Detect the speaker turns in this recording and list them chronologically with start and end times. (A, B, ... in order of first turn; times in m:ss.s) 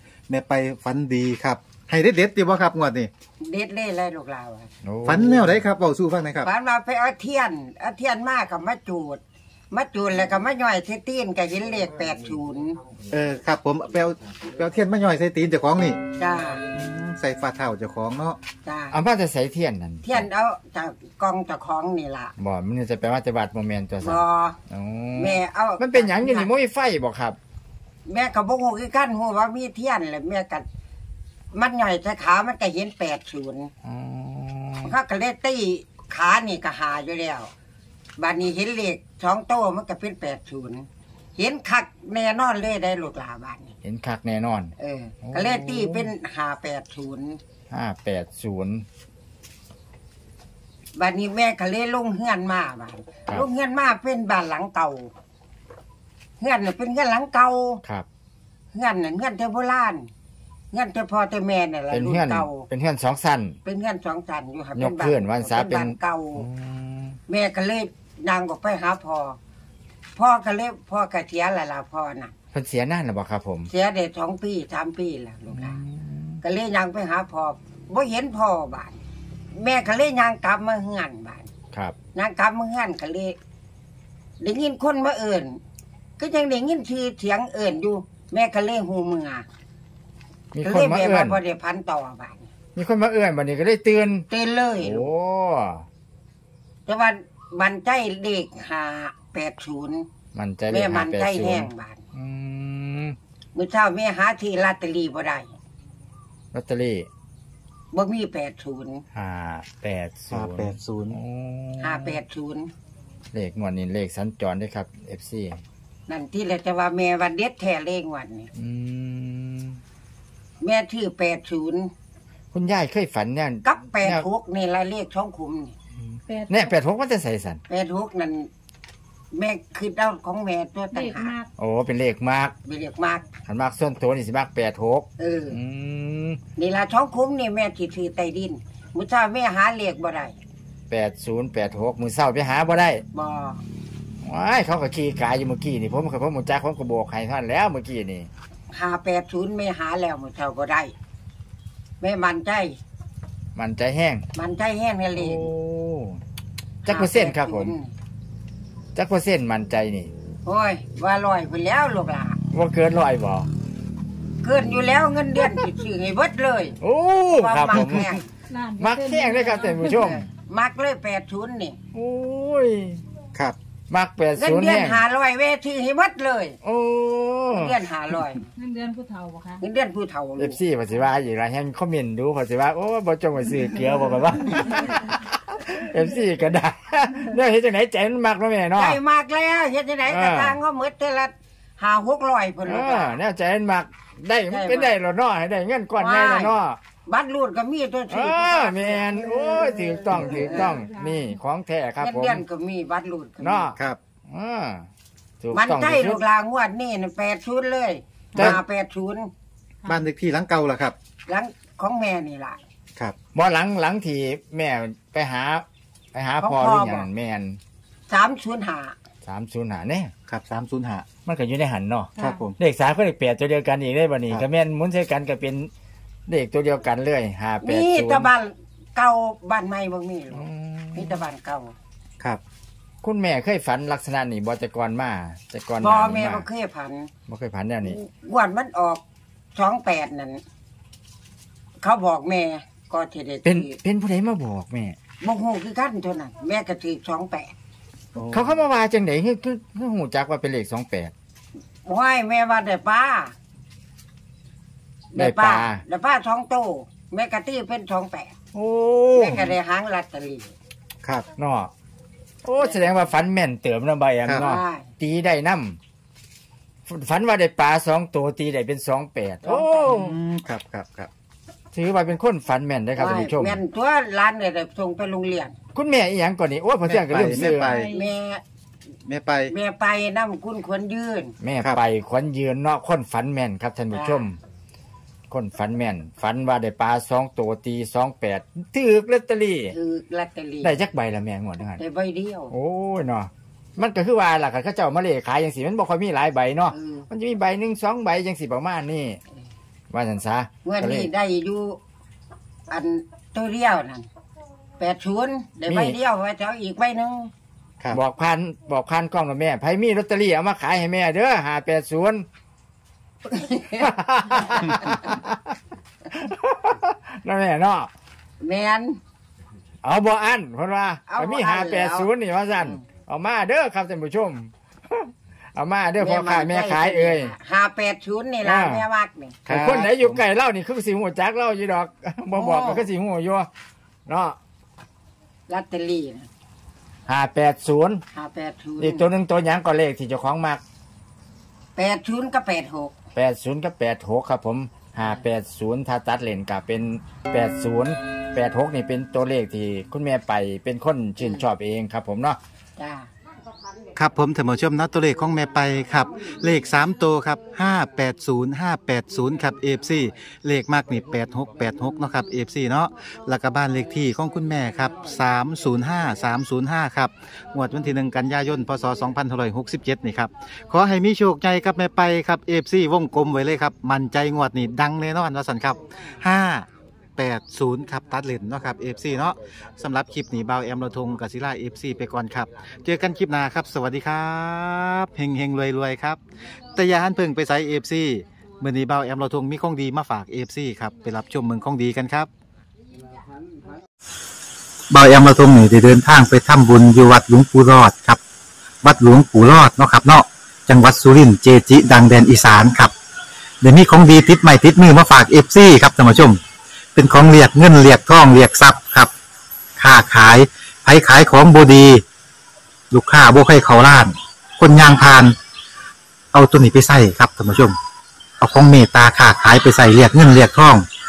0:00.3-0:03.1 A
0:03.4-0:04.7 B
0:04.8-0:05.6 C
0:05.0-0:06.5 A
0:06.4-0:09.2 B
0:09.7-0:12.8 B
0:13.1-0:16.0 A
0:16.2-0:16.6 B
0:16.7-0:18.4 A
0:18.6-0:19.0 B
0:18.9-0:20.2 C
0:20.0-0:22.3 B
0:22.4-0:27.4 C
0:24.0-0:24.6 B
0:25.2-0:26.5 B
0:28.1-0:30.6 B
0:31.5-0:33.7 B
0:33.8-0:34.9 C
0:34.8-0:37.5 B
0:38.2-0:43.7 B
0:43.8-0:46.1 C
0:44.8-0:47.4 B
0:47.7-0:48.8 C
0:51.0-0:55.1 B
0:56.4-0:57.8 B
0:58.7-1:00.1 B
1:00.7-1:02.6 B
1:01.9-1:03.6 C
1:03.6-1:06.5 B
1:04.8-1:07.2 C
1:07.3-1:09.4 B
1:10.2-1:12.3 B
1:12.5-1:13.7 C
1:13.7-1:15.8 B
1:15.5-1:16.4 C
1:16.4-1:19.0 B
1:19.5-1:21.5 B
1:22.1-1:23.4 B
1:24.4-1:25.6 B
1:26.2-1:29.4 B
1:30.5-1:31.4 C
1:30.6-1:32.5 B
1:32.7-1:34.3 C
1:34.3-1:35.1 B
1:34.8-1:35.8 C
1:36.8-1:40.1 B
1:40.3-1:43.2 C
1:40.7-1:42.0 B
1:43.5-1:45.5 B
1:46.5-1:47.1 C
1:47.9-1:49.0 B
1:49.1-1:52.2 C
1:50.3-1:51.2 A
1:51.8-1:52.7 B
1:53.3-1:55.6 C
1:56.1-1:58.5 B
1:58.5-1:59.8 C
2:00.6-2:01.9 B
2:02.5-2:04.3 C
2:03.6-2:05.8 B
2:06.0-2:07.6 C
2:06.3-2:06.6 D
2:07.7-2:08.5 B
2:09.3-2:11.3 B
2:11.0-2:11.4 D
2:11.6-2:12.5 C
2:12.6-2:13.2 B
2:13.4-2:16.4 C
2:15.2-2:15.6 B
2:16.6-2:20.3 B
2:20.9-2:23.0 C
2:23.1-2:23.6 B
2:24.2-2:28.3 C
2:28.7-2:30.9 B
2:32.0-2:32.8 B
2:33.6-2:34.2 C
2:34.3-2:35.5 B
2:35.1-2:36.2 C
2:36.8-2:37.7 C
2:36.8-2:37.9 B
2:38.9-2:40.1 C
2:40.4-2:42.4 B
2:42.5-2:43.5 C
2:44.4-2:46.8 B
2:46.8-2:48.2 C
2:47.3-2:48.2 B
2:48.6-2:49.8 D
2:48.8-2:50.2 C
2:49.8-2:51.8 B
2:51.9-2:53.0 C
2:53.9-2:55.0 C
2:54.4-2:56.6 B
2:56.6-2:58.2 C
2:57.5-2:58.5 B
2:58.6-2:59.6 D
2:59.6-3:00.6 B
3:00.4-3:09.0 C
3:08.8-3:13.2 B
3:10.0-3:10.6 C
3:12.6-3:16.8 C
3:14.5-3:14.9 B
3:15.9-3:20.8 B
3:18.1-3:22.4 C
3:22.0-3:23.8 B
3:23.4-3:23.8 C
3:24.3-3:24.9 C
3:25.4-3:26.2 C
3:25.5-3:29.3 B
3:29.8-3:30.9 A
3:31.3-3:32.6 B
3:33.3-3:37.6 C
3:36.4-3:37.1 B
3:38.1-3:39.0 B
3:39.2-3:40.1 C
3:40.3-3:41.0 A
3:41.2-3:45.7 C
3:42.2-3:42.6 A
3:46.3-3:48.3 C
3:47.6-3:51.7 B
3:50.3-3:51.2 C
3:53.0-3:56.5 C
3:55.8-3:57.1 B
3:57.3-3:58.0 C
3:57.8-3:59.0 B
3:59.5-4:00.4 B
4:01.8-4:03.8 B
4:03.4-4:05.0 C
4:05.2-4:07.5 B
4:08.1-4:08.6 A
4:08.3-4:11.1 C
4:11.8-4:13.3 B
4:15.1-4:18.4 B
4:15.2-4:15.8 C
4:18.5-4:19.5 C
4:19.1-4:20.5 B
4:21.4-4:21.7 C
4:22.4-4:25.8 C
4:22.6-4:22.9 B
4:24.4-4:24.9 B
4:26.9-4:30.1 C
4:29.4-4:30.0 B
4:29.9-4:31.1 A
4:31.7-4:33.6 C
4:33.0-4:35.6 B
4:35.7-4:37.7 C
4:36.9-4:38.0 A
4:37.9-4:38.4 B
4:39.0-4:39.5 A
4:39.5-4:41.3 B
4:41.4-4:44.4 C
4:43.9-4:44.2 B
4:45.3-4:49.8 C
4:49.7-4:50.8 B
4:50.6-4:51.8 C
4:51.8-4:52.5 B
4:52.5-4:59.2 C
4:56.7-4:57.1 B
4:59.9-5:01.1 C
5:00.6-5:01.8 B
5:02.7-5:04.1 B
5:04.8-5:07.3 B
5:05.7-5:06.0 C
5:07.9-5:12.2 C
5:13.2-5:13.9 B
5:13.8-5:15.4 C
5:16.1-5:17.9 C
5:18.4-5:19.0 B
5:19.8-5:27.3 C
5:21.1-5:22.8 B
5:26.0-5:29.4 B
5:28.4-5:28.8 C
5:29.4-5:30.2 A
5:29.5-5:33.5 C
5:32.3-5:32.9 B
5:34.0-5:34.4 C
5:35.5-5:36.3 B
5:37.1-5:38.0 C
5:38.1-5:39.1 B
5:38.8-5:40.6 C
5:41.8-5:42.9 B
5:43.1-5:52.4 C
5:51.2-5:51.4 B
5:52.8-5:53.1 B
5:54.0-6:26.2 A
6:26.7-6:32.3 A
6:34.9-6:38.2 A
6:38.8-6:42.9 A
6:43.6-6:46.4 A
6:47.0-6:49.1 A
6:49.8-6:52.0 A
6:52.9-6:55.3 A
6:56.3-6:57.7 A
6:58.4-7:00.8 A